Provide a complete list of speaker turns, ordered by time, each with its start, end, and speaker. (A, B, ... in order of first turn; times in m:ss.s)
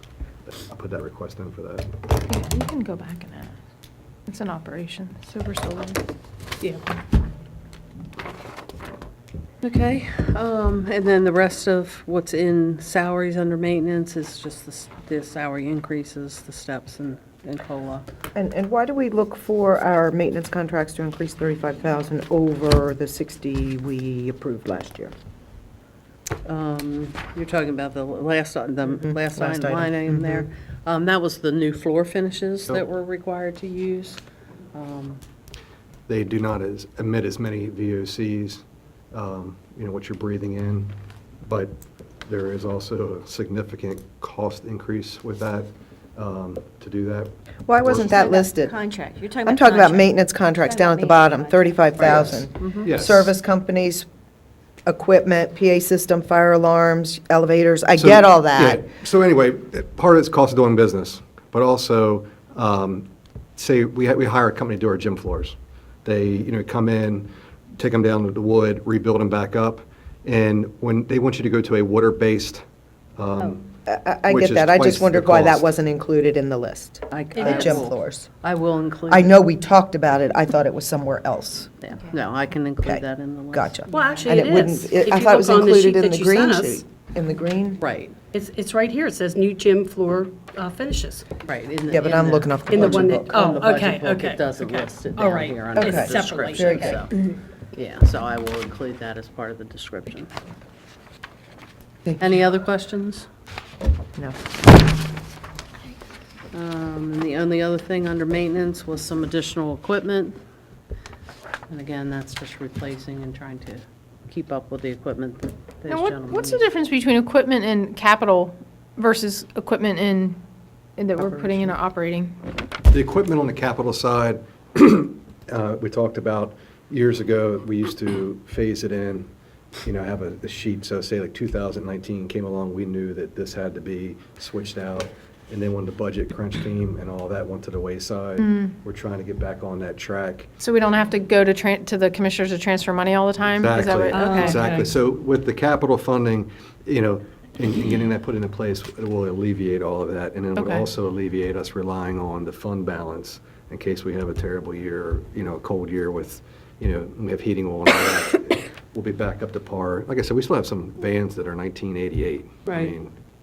0:00.5-0:01.9 A
0:02.3-0:03.6 B
0:04.3-0:06.0 B
0:09.6-0:18.0 C
0:18.3-0:25.1 D
0:26.4-0:34.2 C
0:29.1-0:30.4 D
0:34.7-0:35.2 C
0:36.1-0:41.7 A
0:42.3-0:48.1 A
0:47.6-0:48.8 D
0:48.0-0:51.6 E
0:49.4-0:54.1 D
0:52.0-0:53.3 A
0:52.6-0:52.9 C
0:54.9-0:58.8 D
0:58.0-1:12.6 A
1:13.2-1:13.7 A
1:13.8-1:18.3 D
1:14.3-1:15.7 A
1:17.1-1:19.4 C
1:19.1-1:21.7 D
1:21.8-1:24.5 C
1:22.8-1:27.8 D
1:23.9-1:26.8 F
1:27.8-1:28.2 C
1:28.3-1:31.3 F
1:31.4-1:37.1 C
1:31.9-1:33.5 D
1:32.7-1:37.3 F
1:35.8-1:37.0 D
1:37.7-1:40.3 C
1:42.2-1:43.3 C
1:44.2-1:44.4 D
1:46.5-1:50.4 C
1:51.7-1:56.7 C
1:55.9-2:00.4 B
2:01.0-2:02.4 B
2:01.2-2:01.8 C
2:02.9-2:09.3 A
2:09.8-2:20.5 A
2:18.4-2:18.7 B
2:20.6-2:24.6 B
2:23.6-2:43.1 A
2:24.1-2:24.9 F
2:30.6-2:30.9 B
2:42.7-2:42.9 F